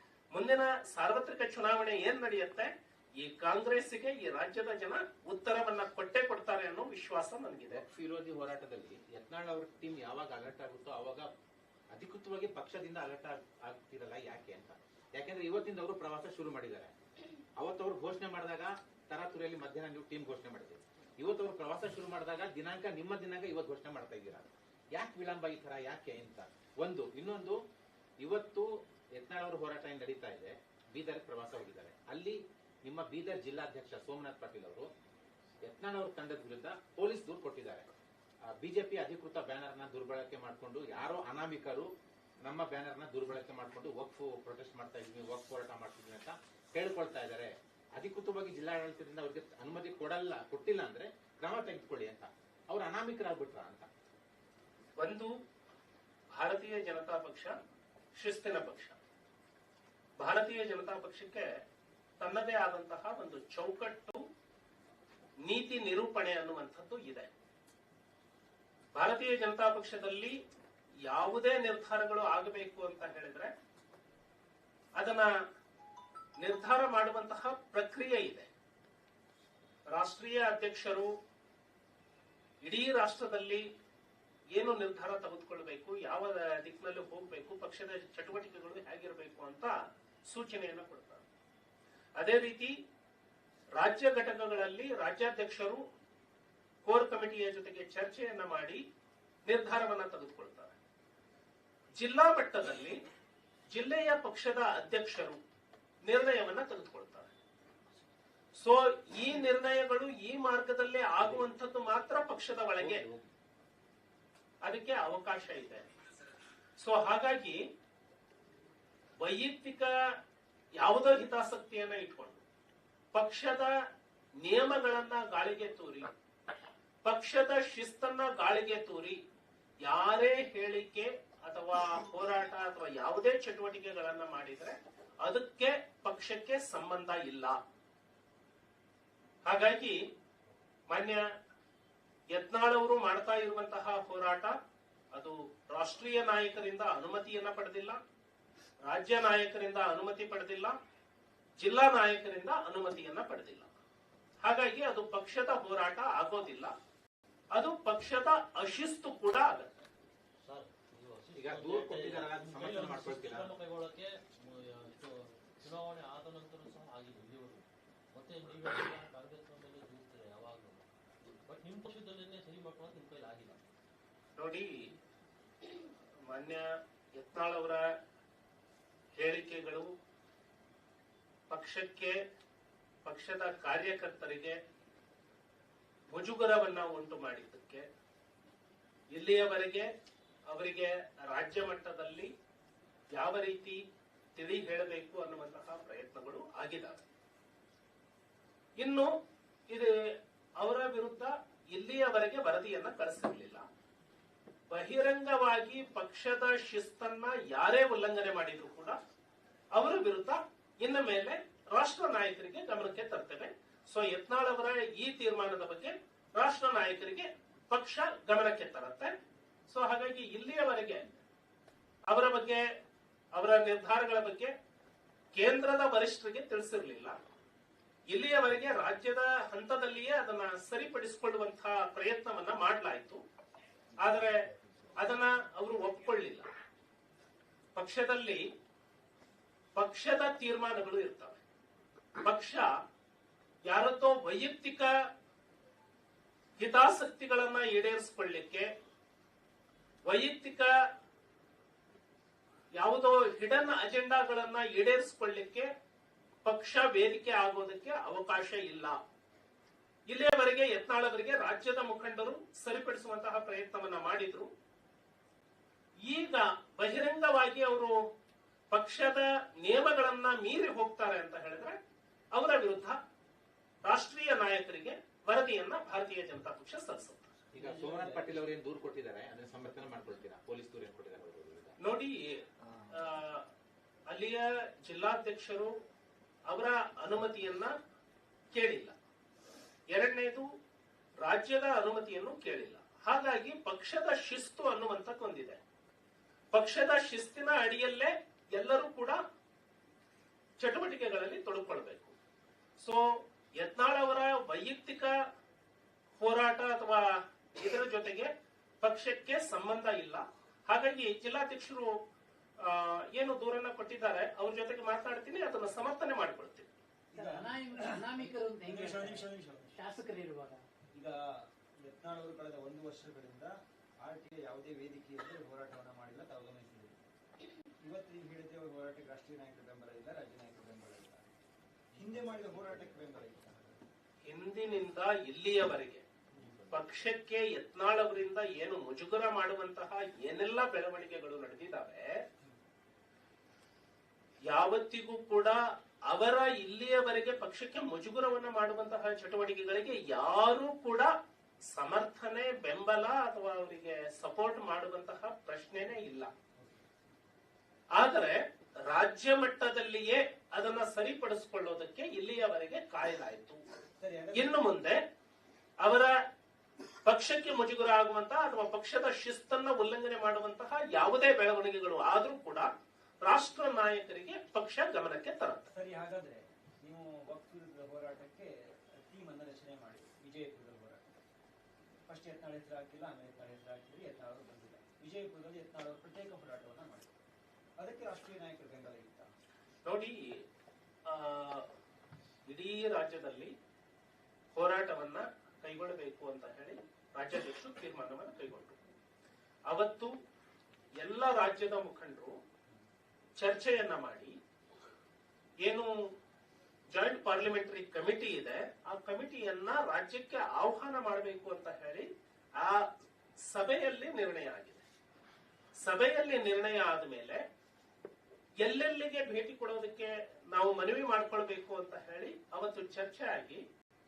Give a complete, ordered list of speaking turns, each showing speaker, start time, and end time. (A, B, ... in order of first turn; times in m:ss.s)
0:00.3-0:07.8 A
0:07.7-0:11.3 B
0:11.9-0:16.9 B
0:17.6-0:27.6 B
0:28.2-0:34.9 B
0:35.6-0:37.9 B
0:38.5-0:41.9 B
0:42.4-0:53.9 B
0:55.0-0:55.3 A
0:56.4-0:57.5 A
0:58.2-0:59.0 A
1:00.2-1:01.6 A
1:02.2-1:04.2 A
1:05.4-1:07.3 A
1:08.9-1:10.4 A
1:11.0-1:13.5 A
1:15.0-1:15.3 A
1:16.4-1:18.5 A
1:19.9-1:21.1 A
1:22.6-1:23.6 A
1:24.5-1:29.7 A
1:30.3-1:31.2 A
1:32.2-1:32.7 A
1:33.8-1:35.8 A
1:36.8-1:38.8 A
1:39.5-1:40.7 A
1:42.0-1:43.0 A
1:43.7-1:45.4 A
1:46.0-1:47.3 A
1:48.6-1:53.0 A
1:52.8-1:53.2 B
1:54.6-1:55.9 A
1:56.8-1:57.6 A
1:59.2-1:59.9 A
2:00.8-2:02.4 A
2:03.1-2:03.7 A
2:04.4-2:06.1 A
2:07.0-2:09.2 A
2:09.8-2:17.6 A
2:19.4-2:20.0 A
2:20.9-2:21.2 A
2:22.3-2:24.6 A
2:25.1-2:28.0 A
2:28.8-2:30.7 A
2:31.6-2:33.7 A
2:34.4-2:36.7 A
2:37.5-2:39.7 A
2:40.4-2:50.8 C
2:41.3-2:43.5 B
2:51.4-2:53.6 C
2:54.4-2:54.8 A
2:56.3-2:57.9 A
2:59.2-2:59.9 A
3:01.5-3:02.2 A
3:03.0-3:04.6 A
3:06.1-3:07.8 A
3:09.1-3:09.9 A
3:10.5-3:12.3 A
3:13.1-3:13.8 A
3:14.4-3:17.0 A
3:18.8-3:19.1 A
3:20.6-3:23.6 A
3:24.7-3:29.0 A
3:29.7-3:39.1 A
3:39.7-3:41.1 A
3:42.1-3:42.6 A
3:43.3-3:44.5 A
3:45.3-3:47.2 A
3:48.1-3:53.2 A
3:54.0-3:56.5 A
3:57.7-3:58.4 A
3:59.7-4:01.4 A
4:02.2-4:02.7 A
4:03.7-4:04.9 A
4:06.6-4:08.7 A
4:10.0-4:10.7 A
4:12.8-4:15.7 A
4:16.4-4:19.0 A
4:20.1-4:24.5 A
4:26.0-4:28.0 A
4:28.7-4:31.8 A
4:32.3-4:33.0 A
4:33.8-4:37.3 A
4:37.5-4:41.8 B
4:37.6-4:38.5 D
4:41.8-4:43.4 A
4:44.1-4:45.7 A
4:46.5-4:47.7 A
4:48.5-4:48.9 A
4:49.9-4:50.5 A
4:51.2-4:55.6 A
4:56.5-4:59.2 A
5:00.6-5:02.1 A
5:03.6-5:05.1 A
5:06.2-5:07.0 A
5:07.6-5:08.3 A
5:08.8-5:11.9 A
5:12.6-5:16.7 A
5:17.1-5:19.8 D
5:17.1-5:20.6 E
5:21.8-5:27.0 D
5:27.8-5:31.3 D
5:31.9-5:33.8 D
5:34.3-5:36.0 A
5:36.7-5:42.1 A
5:44.5-5:51.1 A
5:51.7-5:56.3 A
5:56.6-5:56.8 D
5:58.0-6:03.6 A
6:04.0-6:04.6 D
6:04.3-6:05.0 A
6:05.8-6:06.2 A
6:07.0-6:12.7 A
6:13.2-6:15.7 A
6:15.7-6:21.1 D
6:22.0-6:27.1 D
6:27.8-6:29.3 D
6:29.8-6:30.4 A
6:31.0-6:31.7 A
6:32.5-6:33.5 A
6:34.5-6:38.8 A
6:39.7-6:40.1 A
6:41.0-6:42.4 A
6:43.4-6:44.3 A
6:45.6-6:45.9 A
6:46.9-6:52.1 A
6:52.6-6:52.9 A
6:53.4-6:54.8 A
6:55.8-6:57.4 A
6:58.6-7:03.6 A